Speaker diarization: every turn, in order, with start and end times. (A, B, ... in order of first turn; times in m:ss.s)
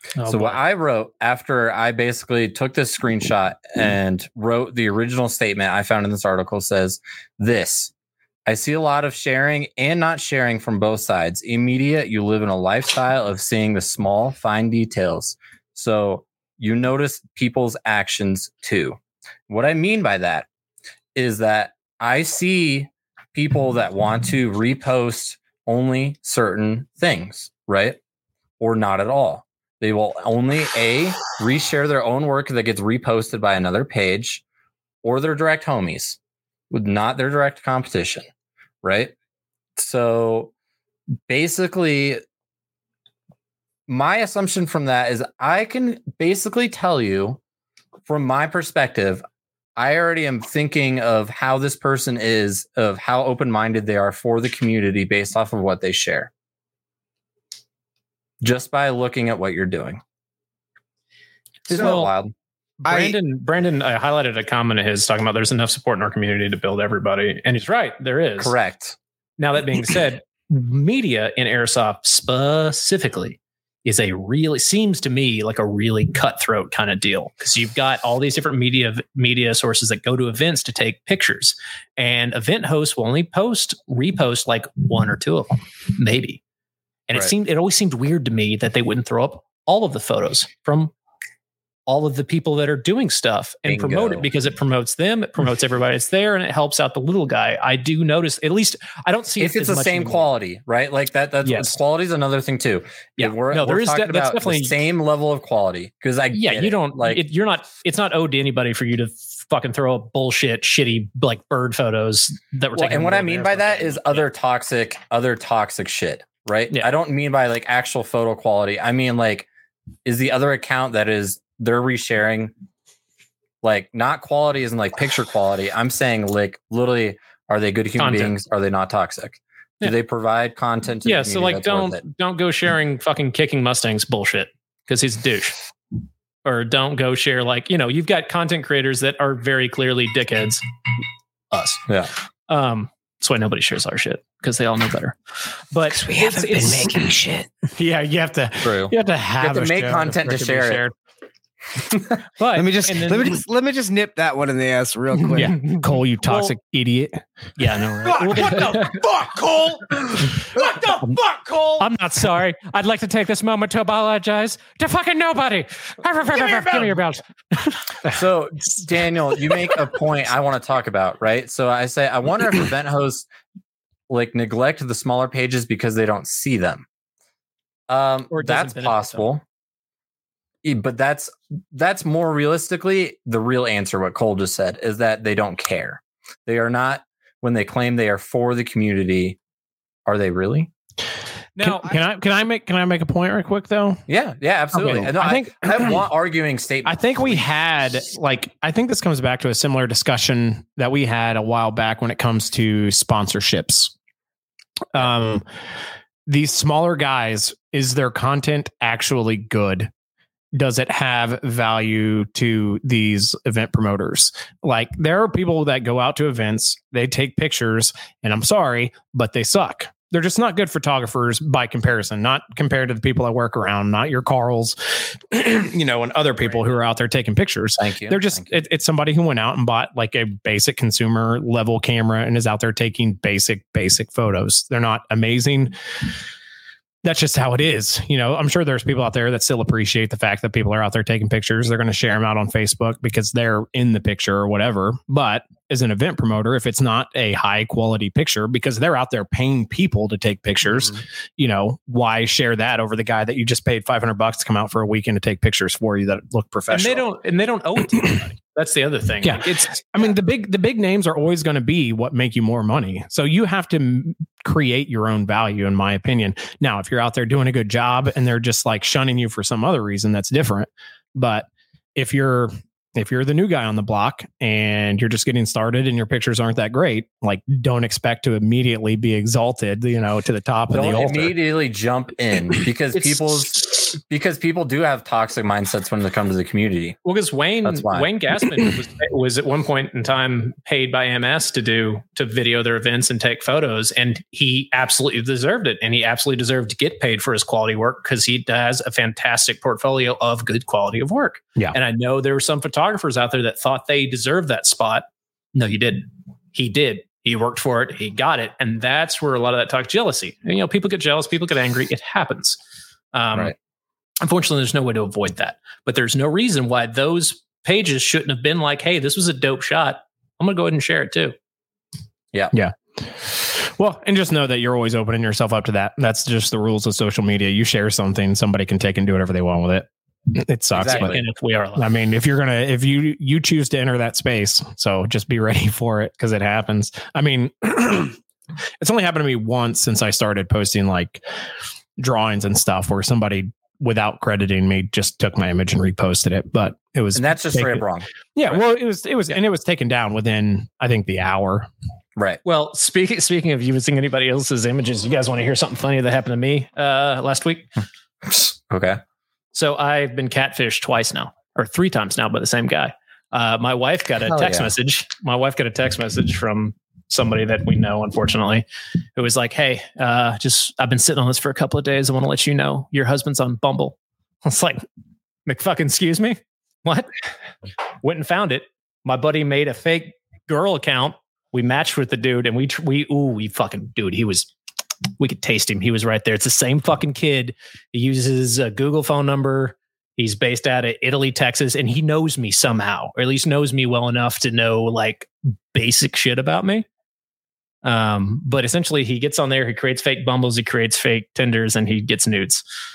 0:00.2-0:00.6 A
0:00.2-0:07.9 B
0:08.4-0:19.0 B
0:19.5-0:20.5 B
0:21.1-0:28.0 B
0:28.6-0:34.4 B
0:35.0-0:36.2 B
0:36.7-0:38.2 B
0:38.8-0:39.1 B
0:39.8-0:40.5 B
0:41.3-0:42.2 B
0:43.9-0:47.4 B
0:48.1-0:49.2 B
0:49.8-0:56.3 B
0:58.4-1:00.0 B
1:01.7-1:02.1 A
1:01.7-1:02.3 B
1:01.7-1:02.0 C
1:02.8-1:08.5 A
1:02.8-1:03.2 C
1:08.4-1:09.0 B
1:09.4-1:26.4 A
1:27.1-1:30.9 A
1:31.9-1:40.2 A
1:33.7-1:34.2 B
1:39.4-1:47.2 B
1:41.4-1:41.8 A
1:43.2-1:44.8 A
1:46.3-1:54.2 A
1:52.8-1:59.5 B
2:00.0-2:02.5 B
2:03.6-2:12.0 B
2:08.0-2:08.3 A
2:11.0-2:15.6 A
2:16.4-2:20.6 A
2:21.5-2:21.8 A
2:22.5-2:27.1 A
2:25.9-2:27.5 C
2:27.8-2:30.9 D
2:28.6-2:30.8 B
2:32.4-2:33.4 A
2:32.5-2:35.6 C
2:35.3-2:36.5 A
2:35.3-2:37.2 D
2:37.6-2:39.0 A
2:38.0-2:41.9 C
2:41.8-2:47.2 A
2:46.3-2:47.0 C
2:48.0-2:53.3 B
2:54.1-2:56.8 B
2:57.9-2:59.4 B
2:58.3-2:59.2 A
3:00.6-3:09.4 B
3:10.0-3:10.7 B
3:11.6-3:11.9 A
3:11.6-3:14.0 D
3:14.1-3:17.4 B
3:14.7-3:16.0 D
3:16.8-3:23.9 D
3:24.9-3:25.4 D
3:26.3-3:29.9 D
3:30.5-3:55.7 D
3:47.8-3:48.5 B
3:57.0-4:17.1 D
4:16.7-4:20.0 A
4:19.2-4:41.3 D
4:40.7-4:47.0 B
4:42.9-4:43.6 A
4:47.0-5:12.6 A
4:47.6-4:48.1 B
5:13.1-5:13.5 A
5:14.2-5:21.3 A
5:22.5-5:31.2 D
5:30.7-5:31.2 B
5:30.8-5:31.9 A
5:31.8-5:38.2 D
5:38.8-5:41.2 D
5:42.0-5:51.7 D
5:47.1-5:48.6 B
5:52.4-5:57.7 A
5:58.2-5:59.0 B
5:59.5-6:08.6 A
6:04.3-6:04.7 B
6:09.2-6:14.8 A
6:15.4-6:17.1 A
6:18.0-6:24.5 A
6:25.2-6:36.8 A
6:37.8-6:42.6 A